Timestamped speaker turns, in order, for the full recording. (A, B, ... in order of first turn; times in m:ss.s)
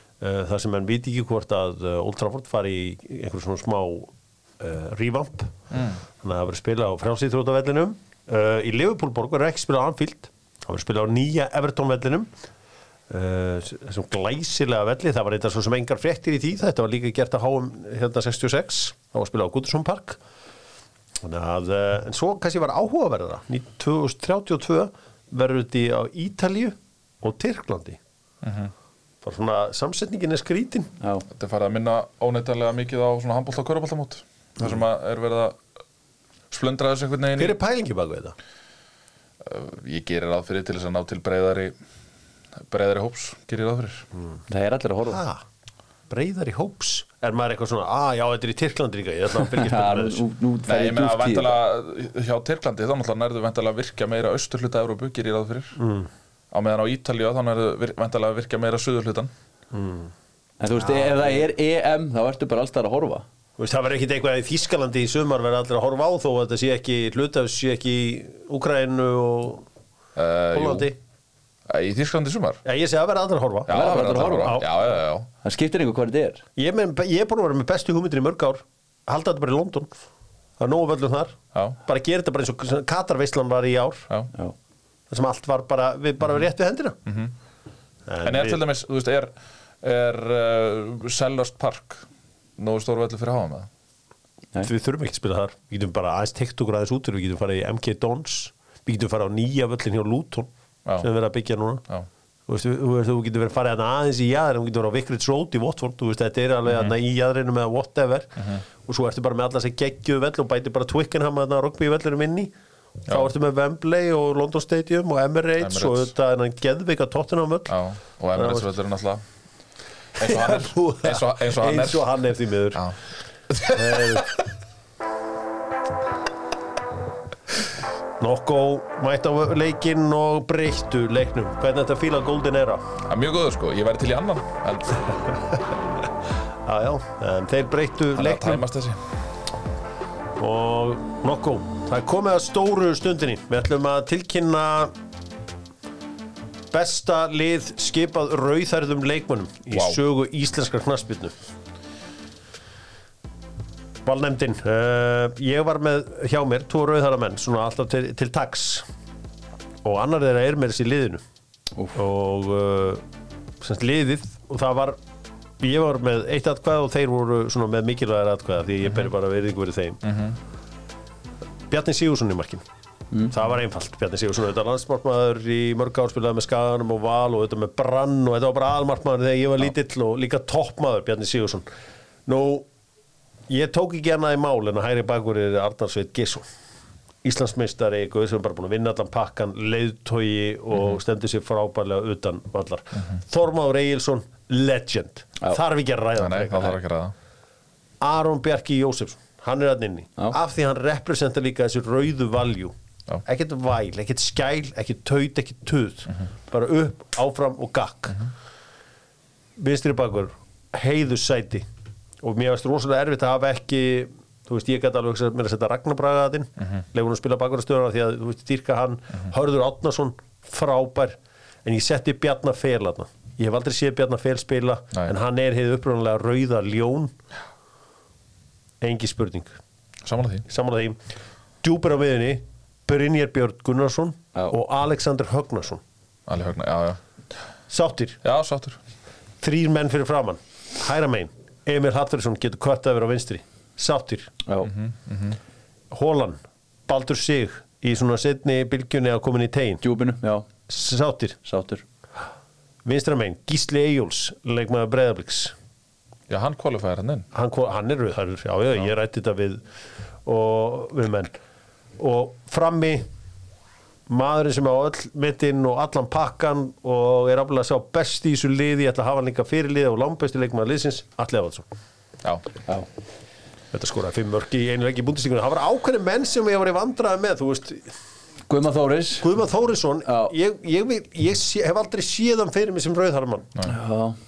0:00.2-0:05.5 A
0:05.7-0:06.0 B
0:06.2-0:12.3 A
0:13.1-0:20.2 A
0:21.2-0:28.0 A
0:28.4-0:28.7 B
0:29.2-0:30.9 A
0:31.0-0:31.2 C
0:31.3-0:35.6 B
0:36.5-0:37.6 B
0:37.4-0:38.3 A
0:39.4-0:41.7 B
0:42.6-0:44.0 B
0:44.5-0:45.2 C
0:45.0-0:45.4 A
0:46.1-0:50.2 A
0:49.5-0:51.6 C
0:50.7-0:55.8 B
0:55.8-0:56.1 A
0:56.5-0:59.3 B
0:59.7-1:00.1 A
1:00.6-1:03.2 C
1:00.8-1:01.4 A
1:03.6-1:09.6 A
1:10.2-1:10.9 B
1:10.5-1:11.0 A
1:11.7-1:12.6 B
1:12.6-1:14.6 A
1:13.7-1:15.3 B
1:13.7-1:14.6 C
1:15.4-1:16.4 C
1:16.6-1:19.9 A
1:20.6-1:24.1 A
1:25.1-1:27.0 A
1:27.0-1:27.3 B
1:28.1-1:28.6 A
1:28.2-1:32.0 B
1:32.6-1:33.7 B
1:34.6-1:41.8 A
1:42.5-1:52.5 A
1:46.6-1:46.9 B
1:48.4-1:48.6 B
1:53.0-1:57.7 A
1:55.6-1:56.1 B
1:57.7-1:59.2 B
1:58.3-1:58.7 A
2:00.2-2:02.1 B
2:00.2-2:02.8 A
2:03.5-2:04.2 B
2:03.7-2:04.4 A
2:08.2-2:12.8 A
2:13.0-2:15.0 B
2:16.6-2:18.6 A
2:18.1-2:19.0 B
2:20.4-2:24.9 A
2:26.7-2:31.3 A
2:29.7-2:30.0 B
2:34.0-2:38.8 A
2:39.8-2:41.2 A
2:41.9-2:43.0 A
2:43.6-2:45.0 A
2:45.6-2:50.0 A
2:50.0-2:50.4 B
2:51.7-2:52.6 A
2:53.3-3:01.7 A
3:02.2-3:02.6 A
3:03.5-3:06.4 A
3:07.2-3:16.7 A
3:10.7-3:11.0 B
3:16.2-3:17.1 B
3:18.0-3:22.7 A
3:23.2-3:28.2 A
3:29.6-3:31.6 A
3:32.2-3:47.1 A
3:48.8-3:49.6 A
3:50.0-3:50.4 B
3:50.5-3:51.0 A
3:51.6-3:55.8 A
3:56.3-3:57.0 B
3:57.7-3:58.2 A
3:58.2-3:58.8 B
3:59.4-4:04.3 A
4:04.4-4:04.7 C
4:04.6-4:05.4 B
4:05.9-4:09.8 A
4:09.8-4:10.5 C
4:10.7-4:11.4 A
4:11.4-4:11.8 C
4:12.8-4:15.5 A
4:16.3-4:17.3 B
4:17.3-4:19.6 A
4:20.2-4:21.3 A
4:22.0-4:23.0 A
4:24.1-4:31.6 A
4:33.7-4:37.9 A
4:38.5-4:39.3 C
4:39.2-4:43.5 A
4:40.0-4:40.3 C
4:43.6-4:44.2 C